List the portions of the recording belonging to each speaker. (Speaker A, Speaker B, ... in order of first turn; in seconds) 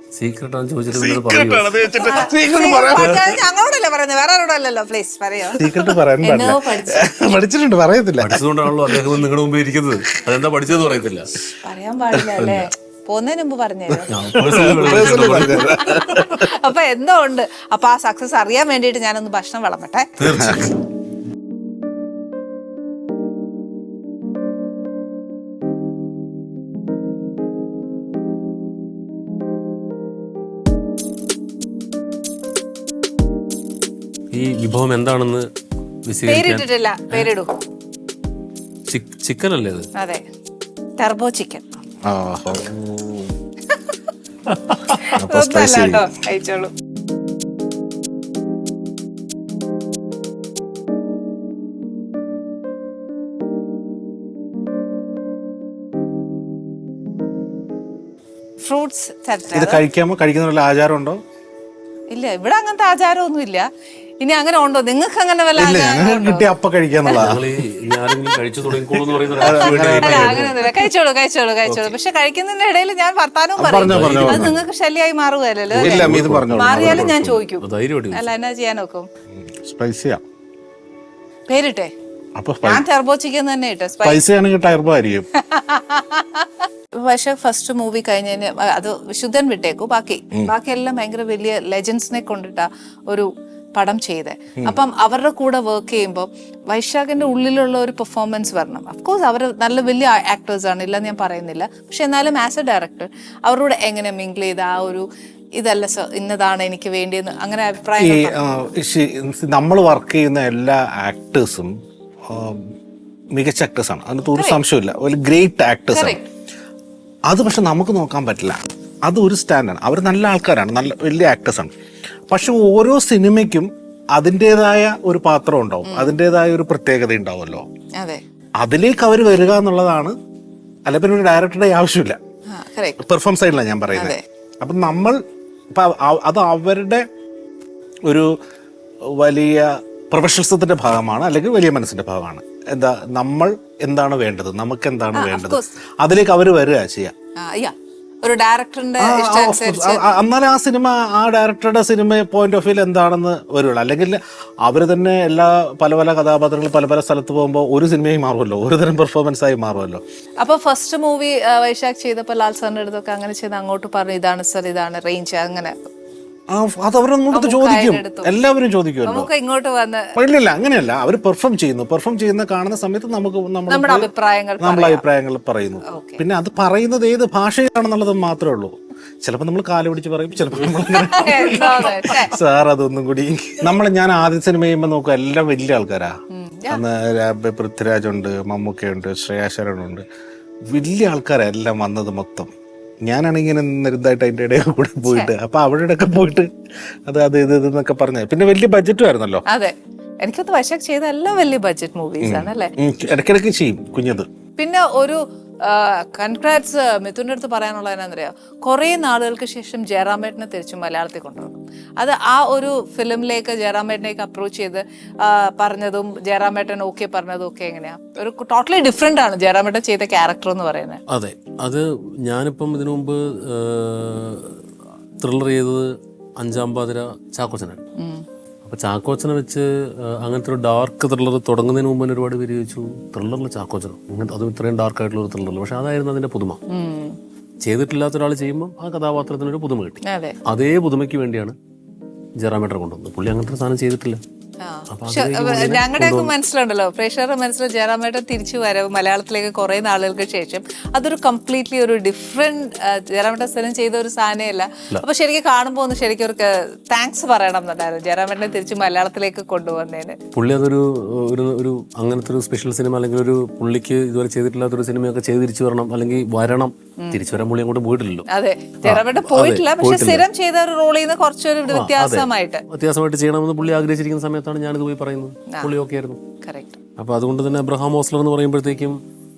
Speaker A: 0.1-1.9, 3.0-3.3, 8.2-11.3, 14.1-15.8, 20.2-20.8, 34.3-35.5, 36.1-37.3, 38.9-39.9, 67.1-70.7, 71.7-71.9, 73.8-74.6, 75.7-78.3, 221.1-224.6, 225.2-225.9, 226.4-227.8, 228.6-236.6, 237.6-241.5, 242.4-244.2, 244.9-246.3, 260.3-268.2, 268.8-270.2, 271.7-276.2, 277.0-279.0
Speaker B: 0.9-3.4, 5.5-9.1, 12.3-12.6, 14.3-16.5, 20.2-20.7, 42.0-43.3, 45.0-46.1, 59.5-61.2, 65.5-67.4, 69.1-70.5, 73.6-74.5, 75.7-77.1, 79.6-80.2, 82.3-82.8, 84.0-85.2, 108.0-111.7, 112.3-112.7, 113.3-116.2, 117.3-121.7, 122.3-127.6, 128.6-130.1, 130.8-132.2, 133.0-135.2, 135.7-137.0, 138.1-138.3, 139.2-147.1, 149.0-160.0, 166.5-169.3, 170.1-174.1, 174.6-186.1, 186.7-190.0, 190.7-192.5, 193.1-196.5, 197.1-199.4, 202.2-204.3
Speaker C: 2.0-5.7, 6.2-7.4, 11.6-14.1, 15.3-20.1, 36.2-37.5, 40.0-40.2, 41.0-41.8, 45.0-46.7, 58.6-59.8, 62.1-63.7, 64.2-66.5, 69.4-79.1, 81.5-81.9, 82.6-84.2, 85.3-105.0, 105.6-108.4, 114.2-114.6, 115.9-116.2, 125.8-126.2, 132.5-133.0, 133.9-134.2, 145.1-145.7, 147.4-150.0, 160.4-165.9, 167.3-168.3, 169.0-170.1, 173.7-175.0, 175.9-176.2, 180.9-182.3, 186.3-186.8, 199.5-202.7, 204.6-221.0, 228.0-228.2, 236.7-237.2, 240.0-240.4, 244.6-260.2, 268.3-272.6, 276.4-276.8